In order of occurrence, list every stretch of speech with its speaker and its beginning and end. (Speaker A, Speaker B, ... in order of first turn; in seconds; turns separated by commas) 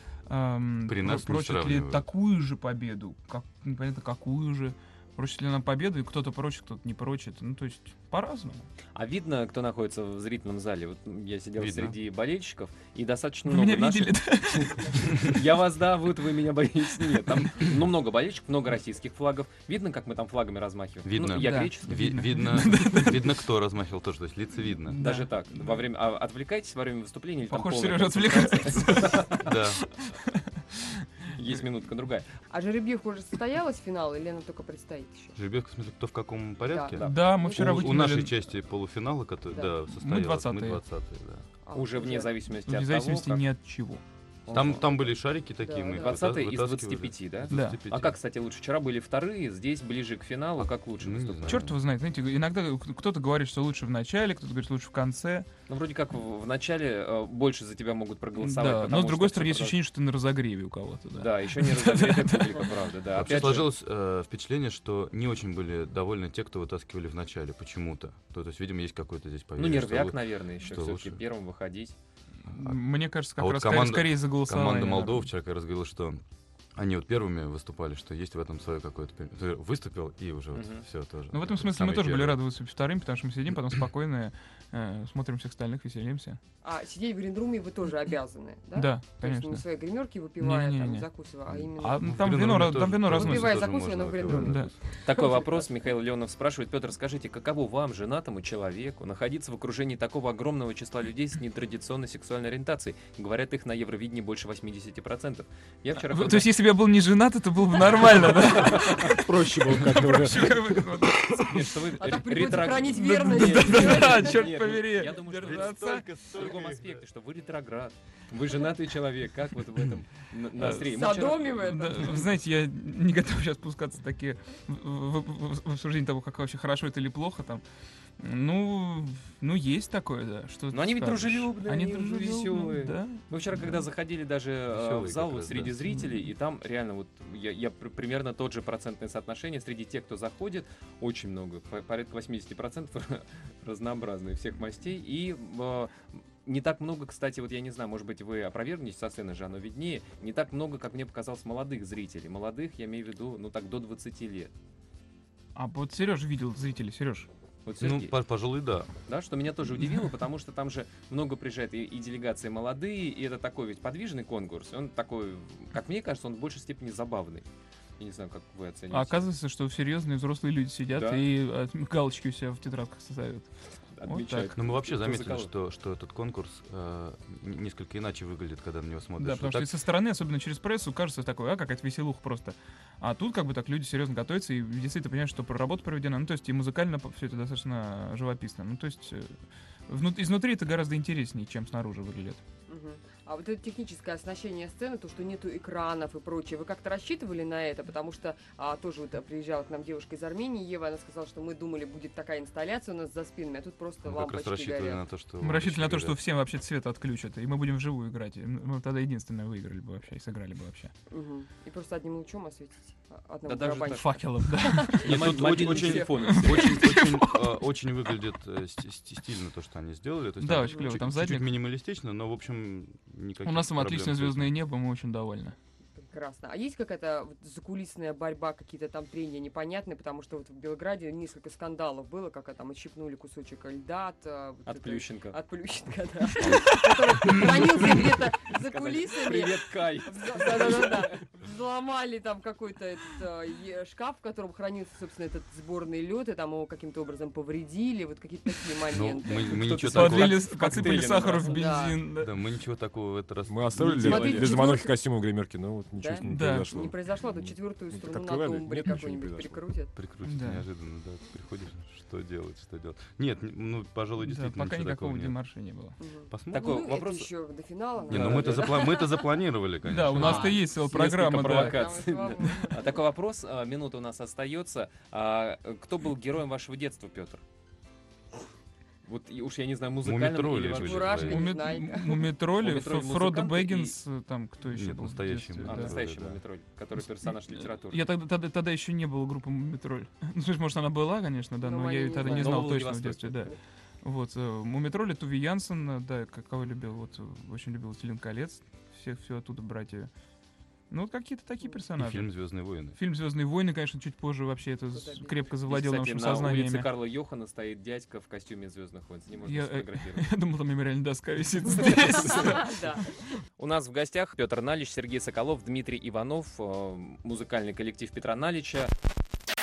Speaker A: 0.3-8.7, Speaker B: 0.8-2.1, Speaker C: 8.9-21.9, Speaker B: 11.6-12.0, Speaker A: 13.5-15.2, Speaker B: 21.1-25.0, Speaker A: 21.2-23.4, Speaker A: 24.9-25.9, Speaker C: 25.0-29.5, Speaker A: 27.5-31.3, Speaker B: 29.4-29.8, Speaker C: 31.3-32.3, Speaker D: 32.5-35.4, Speaker B: 35.4-41.5, Speaker D: 36.7-37.9, Speaker A: 37.0-38.4, Speaker A: 39.9-40.8, Speaker D: 41.6-42.3, Speaker C: 41.7-43.4, Speaker A: 42.7-44.0, Speaker C: 44.5-45.1, Speaker B: 44.5-48.2, Speaker D: 45.6-46.3, Speaker C: 46.0-51.7, Speaker A: 47.5-47.8, Speaker B: 50.6-51.8, Speaker A: 51.5-55.5, Speaker C: 55.7-59.8, Speaker A: 58.4-62.8, Speaker C: 61.2-63.7, Speaker B: 63.1-71.2, Speaker C: 69.6-71.9, Speaker A: 72.5-75.3, Speaker B: 72.5-76.2, Speaker B: 76.8-82.4, Speaker C: 80.5-80.8, Speaker A: 81.3-86.4, Speaker D: 86.6-92.3, Speaker A: 88.8-89.7, Speaker A: 90.4-91.1, Speaker B: 91.5-94.8, Speaker A: 91.8-93.7, Speaker D: 92.8-95.6, Speaker A: 94.3-94.7, Speaker C: 95.0-106.6, Speaker A: 106.0-116.1, Speaker C: 108.0-109.1, Speaker E: 108.5-111.5, Speaker C: 111.3-121.6, Speaker D: 112.0-114.4, Speaker B: 115.2-117.0, Speaker A: 120.6-127.6, Speaker D: 120.7-122.3, Speaker A: 128.2-133.9, Speaker C: 130.7-145.9, Speaker B: 134.7-135.8, Speaker A: 135.9-136.3, Speaker C: 146.4-154.5, Speaker A: 155.6-157.3, Speaker C: 157.7-158.2, Speaker B: 157.8-158.9, Speaker C: 159.1-167.5, Speaker C: 168.0-169.3, Speaker A: 168.9-173.5, Speaker C: 170.9-171.3, Speaker C: 174.0-175.5, Speaker A: 174.0-174.5, Speaker B: 174.6-179.8, Speaker A: 179.2-189.4, Speaker A: 189.9-192.4, Speaker D: 192.7-205.0, Speaker B: 204.0-206.2, Speaker A: 205.4-210.9, Speaker D: 211.1-215.0, Speaker C: 213.5-214.1, Speaker A: 213.9-215.2, Speaker C: 215.0-216.7, Speaker B: 215.0-224.6, Speaker D: 215.6-216.1, Speaker A: 216.2-217.4, Speaker A: 220.4-221.5, Speaker D: 220.5-221.0, Speaker A: 223.4-225.6, Speaker D: 226.0-249.7, Speaker C: 234.7-235.3, Speaker B: 236.4-236.8, Speaker A: 236.7-238.1, Speaker C: 237.9-241.2, Speaker B: 248.9-250.6, Speaker A: 249.6-252.4, Speaker C: 249.7-251.6, Speaker D: 251.3-252.0, Speaker B: 252.2-254.4, Speaker E: 253.5-259.7, Speaker A: 254.0-254.8, Speaker D: 254.0-255.0, Speaker D: 256.0-259.9, Speaker A: 256.2-256.9, Speaker B: 259.9-265.4, Speaker A: 260.2-260.7, Speaker A: 264.2-266.0, Speaker D: 266.0-269.4, Speaker B: 266.3-266.9, Speaker C: 266.5-267.3, Speaker C: 268.1-268.9, Speaker B: 268.1-270.7, Speaker A: 269.9-271.9, Speaker D: 270.2-270.6, Speaker C: 270.2-277.4, Speaker D: 271.5-273.0, Speaker C: 279.1-281.5, Speaker B: 280.0-281.6, Speaker D: 280.8-282.3, Speaker A: 281.3-286.0, Speaker C: 282.6-284.0, Speaker B: 284.6-286.4, Speaker C: 285.6-288.1, Speaker A: 287.2-300.1, Speaker D: 291.6-292.8, Speaker C: 292.2-293.5, Speaker A: 300.9-302.4, Speaker B: 302.0-303.0, Speaker A: 302.9-306.9, Speaker D: 304.9-305.5, Speaker C: 305.7-310.3, Speaker A: 309.4-313.3, Speaker D: 311.7-313.1, Speaker C: 312.1-312.4, Speaker C: 313.6-318.9